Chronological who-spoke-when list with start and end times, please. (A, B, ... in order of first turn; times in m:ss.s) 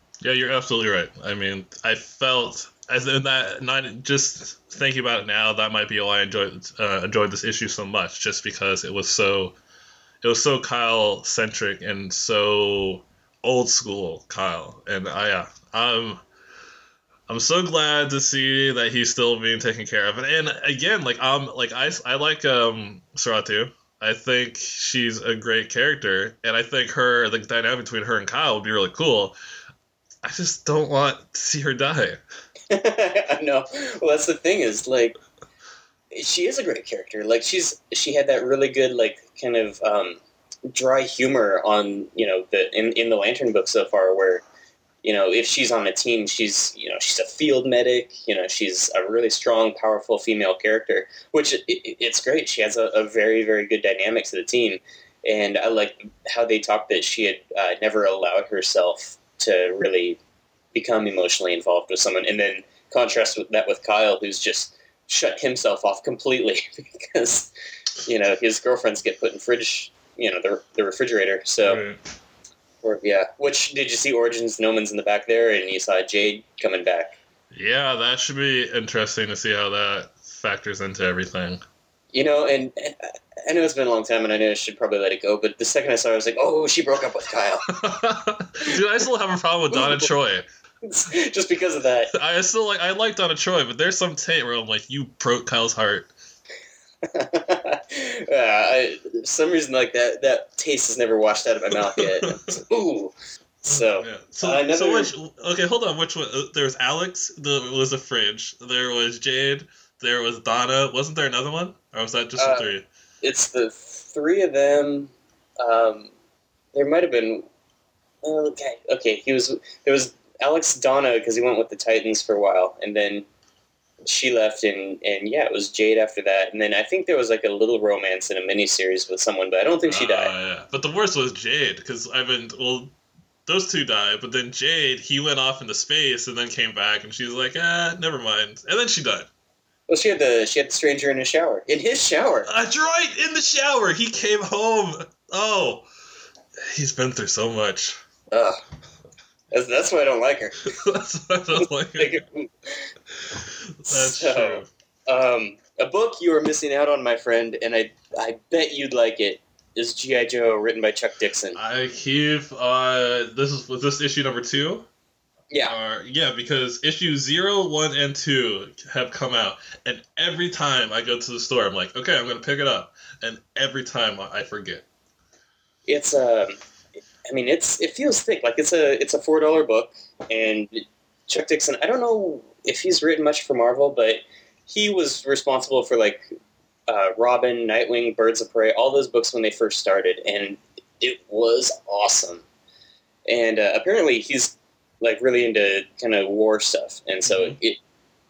0:00.2-0:09.6 A
0:10.2-0:16.2 A
0:17.3-0:29.4 A
0:30.2-0:32.2 A
0:32.7-0:35.2 B
0:36.1-0:44.4 B
0:45.0-1:00.2 B
1:00.7-1:07.5 B
1:08.0-1:11.8 B
1:11.6-1:12.0 A
1:12.8-1:17.2 B
1:17.5-1:21.6 A
1:22.1-1:27.7 B
1:27.7-1:30.5 A
1:29.7-1:30.1 B
1:30.8-1:32.1 B
1:32.1-1:36.1 A
1:37.0-1:43.1 B
1:42.0-1:42.5 A
1:43.6-1:52.9 A
1:43.6-1:45.1 B
1:52.4-1:52.7 B
1:53.2-1:56.1 B
1:56.8-1:57.5 B
1:58.2-2:03.3 B
2:04.0-2:10.3 B
2:09.9-2:12.9 A
2:13.5-2:19.3 A
2:19.9-2:22.5 B
2:22.5-2:25.9 A
2:26.7-2:28.0 A
2:28.3-2:28.6 B
2:29.5-2:30.7 B
2:30.6-2:32.2 A
2:32.0-2:32.9 B
2:33.4-2:34.7 A
2:33.9-2:41.6 B
2:41.6-2:44.9 A
2:45.6-2:54.9 A
2:55.9-2:56.6 B
2:57.3-3:06.2 B
3:06.9-3:12.4 B
3:13.3-3:17.8 B
3:17.3-3:17.6 A